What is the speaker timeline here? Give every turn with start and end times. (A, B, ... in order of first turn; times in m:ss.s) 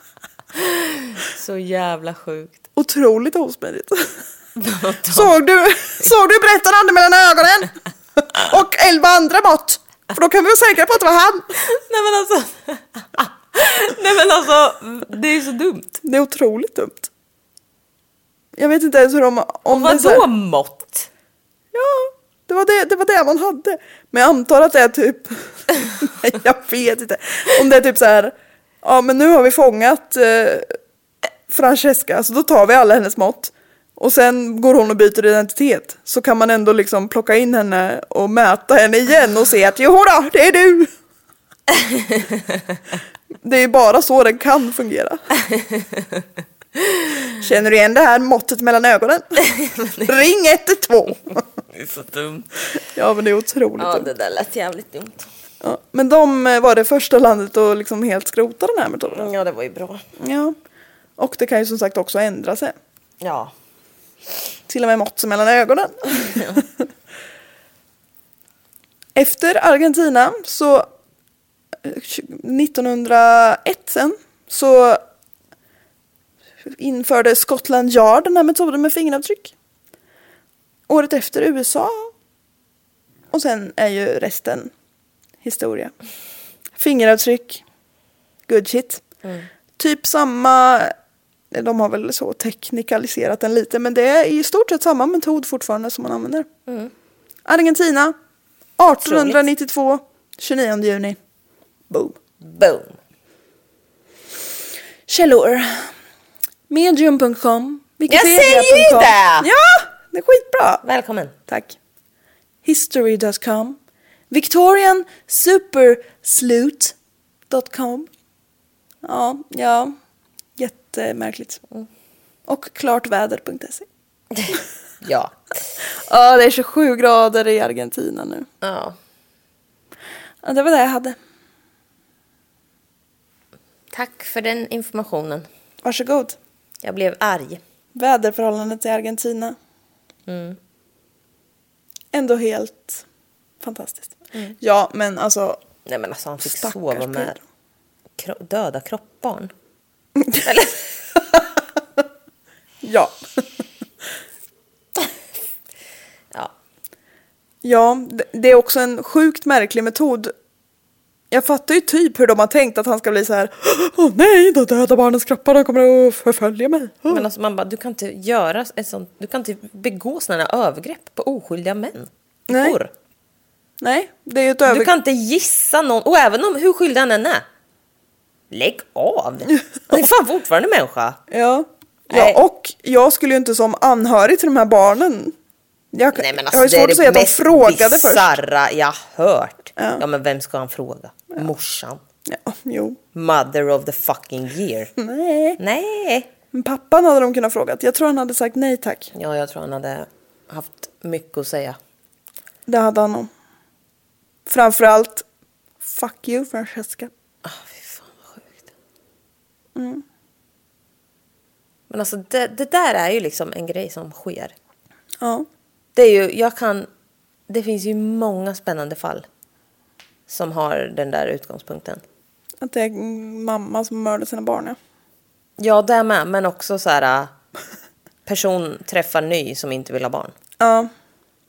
0:00.5-0:02.6 A
0:02.8-0:04.2 B
0:04.6-0:05.3 A
0:05.1-0:11.4 B
0:11.6-0:16.0 A
0:16.0-0:17.1 B
0:18.6-0:20.3 B
0:19.7-0:21.1 A
0:21.7-0:30.7 B
0:31.5-0:40.9 B
0:41.7-0:42.4 A
0:43.4-0:45.2 B
0:45.5-0:46.2 A
0:47.4-0:49.4 B
0:49.5-0:50.0 A
0:50.0-0:51.4 B
0:51.7-0:52.5 A
0:52.9-0:54.1 B
0:53.8-0:55.3 A
0:55.6-0:59.3 B
0:59.1-1:00.0 A
1:00.2-1:00.6 B
1:01.2-1:02.8 B
1:03.2-1:03.5 A
1:04.7-1:06.6 B
1:06.2-1:06.6 A
1:09.1-1:10.9 B
1:11.8-1:15.0 B
1:16.6-1:19.5 B
1:20.9-1:22.1 B
1:23.3-1:24.7 B
1:25.4-1:25.9 B
1:26.7-1:27.6 B
1:28.5-1:29.0 B
1:29.8-1:30.9 B
1:31.5-1:36.5 B
1:36.7-1:36.9 A
1:37.4-1:38.1 B
1:38.8-1:41.2 B
1:39.0-1:39.4 A
1:41.9-1:42.2 B
1:42.4-1:43.0 A
1:45.1-1:45.9 B
1:46.7-1:50.8 B
1:48.1-1:49.5 A
1:50.8-1:51.3 A
1:51.5-1:51.8 B
1:52.6-1:53.8 B
1:54.3-1:57.0 B
1:57.5-1:58.1 B
1:59.0-1:59.9 B
2:00.6-2:01.6 B
2:02.5-2:03.9 B
2:04.3-2:05.4 A
2:05.9-2:08.5 B
2:08.6-2:09.0 A
2:10.4-2:11.2 B
2:13.9-2:15.5 A
2:15.8-2:16.4 B
2:16.8-2:17.6 A
2:17.9-2:19.6 B
2:20.3-2:20.6 A
2:22.1-2:23.0 B
2:23.6-2:25.6 B
2:25.8-2:27.3 A
2:26.4-2:27.4 B
2:28.2-2:29.5 A
2:30.2-2:30.4 B
2:30.4-2:30.9 A
2:32.8-2:33.2 B
2:37.6-2:40.3 B
2:41.3-2:47.2 B
2:47.1-2:52.9 A
2:52.5-2:52.8 B
2:53.8-2:54.9 B
2:54.6-2:57.4 A
2:58.5-3:01.2 A
3:01.3-3:05.4 B
3:02.1-3:02.4 A
3:05.9-3:08.3 B
3:06.2-3:12.0 A
3:09.8-3:10.0 B
3:12.2-3:13.0 B
3:13.1-3:14.9 A
3:15.0-3:15.6 B
3:15.6-3:16.3 A
3:16.5-3:19.1 B
3:19.1-3:21.8 A
3:22.7-3:23.3 B
3:24.4-3:25.2 B
3:25.8-3:27.1 B
3:27.4-3:28.7 A
3:29.8-3:30.0 B
3:31.9-3:34.5 A
3:35.2-3:35.5 B
3:35.9-3:36.9 A
3:37.5-3:39.3 A
3:40.3-3:42.0 A
3:42.6-3:44.8 B
3:45.6-3:47.3 A
3:48.2-3:50.3 A
3:50.6-3:50.9 B